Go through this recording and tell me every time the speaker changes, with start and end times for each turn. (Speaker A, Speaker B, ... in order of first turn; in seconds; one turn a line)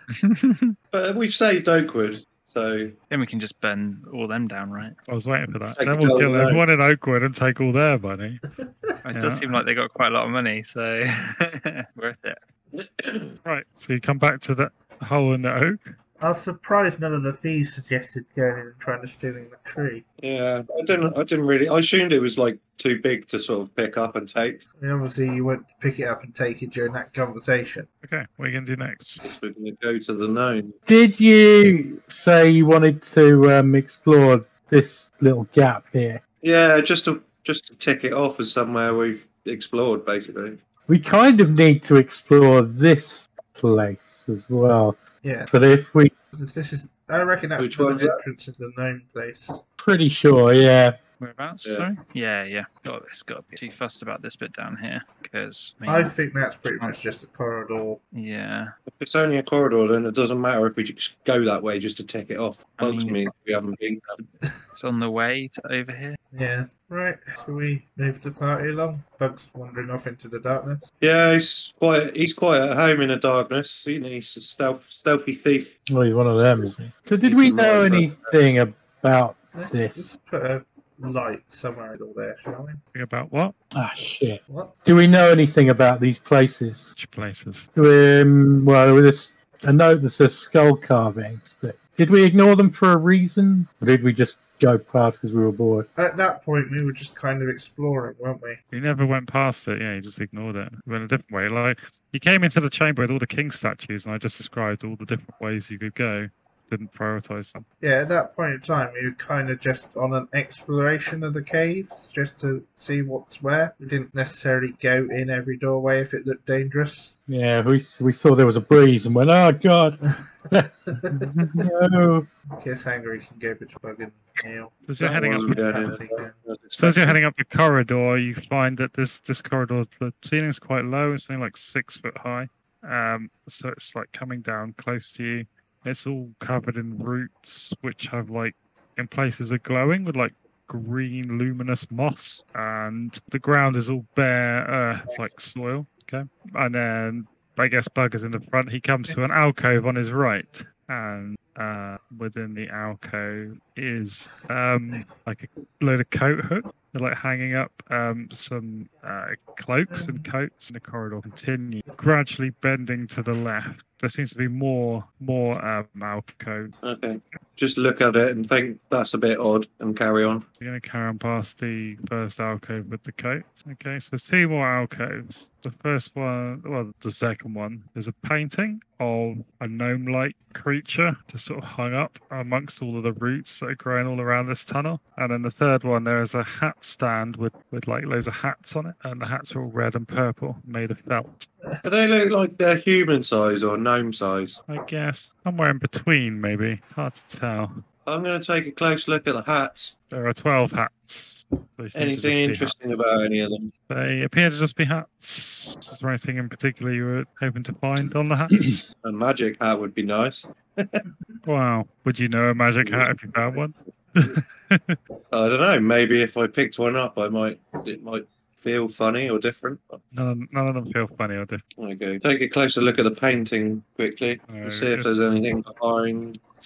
Speaker A: 0.2-0.7
Speaker B: 0.9-2.9
Speaker A: 3.1-5.0
Speaker C: 5.1-8.4
Speaker B: 5.8-6.6
Speaker D: 8.6-9.0
Speaker A: 9.0-12.4
Speaker C: 9.1-9.5
Speaker B: 12.7-13.3
Speaker C: 13.4-15.8
Speaker D: 16.2-20.0
Speaker B: 20.2-24.6
Speaker D: 24.8-27.9
Speaker C: 28.0-29.2
Speaker B: 29.2-30.7
Speaker E: 30.9-36.2
Speaker B: 36.4-40.6
Speaker E: 40.9-46.1
Speaker D: 45.2-45.5
Speaker D: 46.4-49.6
Speaker B: 47.6-48.2
Speaker E: 49.8-51.0
Speaker A: 51.2-56.1
Speaker D: 55.9-58.0
Speaker A: 58.1-58.7
Speaker B: 59.0-64.2
Speaker A: 62.8-63.4
Speaker A: 64.2-66.2
Speaker D: 66.3-70.8
Speaker B: 71.0-75.7
Speaker E: 75.9-80.1
Speaker B: 77.2-78.3
Speaker D: 79.5-82.8
Speaker C: 82.9-83.5
Speaker E: 83.8-86.9
Speaker D: 84.5-84.7
Speaker C: 87.0-87.7
Speaker E: 87.8-95.9
Speaker D: 96.0-98.6
Speaker C: 98.7-107.6
Speaker D: 107.8-117.1
Speaker E: 117.3-122.3
Speaker D: 121.0-121.3
Speaker D: 122.6-124.8
Speaker C: 124.8-125.9
Speaker B: 125.0-127.2
Speaker D: 125.6-126.4
Speaker C: 126.8-166.7
Speaker D: 159.9-160.2
Speaker B: 166.8-170.4
Speaker C: 170.6-191.5
Speaker B: 191.8-194.6
Speaker C: 194.7-197.8
Speaker B: 198.1-199.9
Speaker C: 200.1-203.1
Speaker B: 201.9-203.7
Speaker C: 203.9-208.8
Speaker B: 209.0-211.0
Speaker C: 211.4-215.0
Speaker B: 212.8-213.1
Speaker B: 215.3-220.0
Speaker C: 220.1-221.6
Speaker B: 221.8-226.4
Speaker C: 224.5-225.1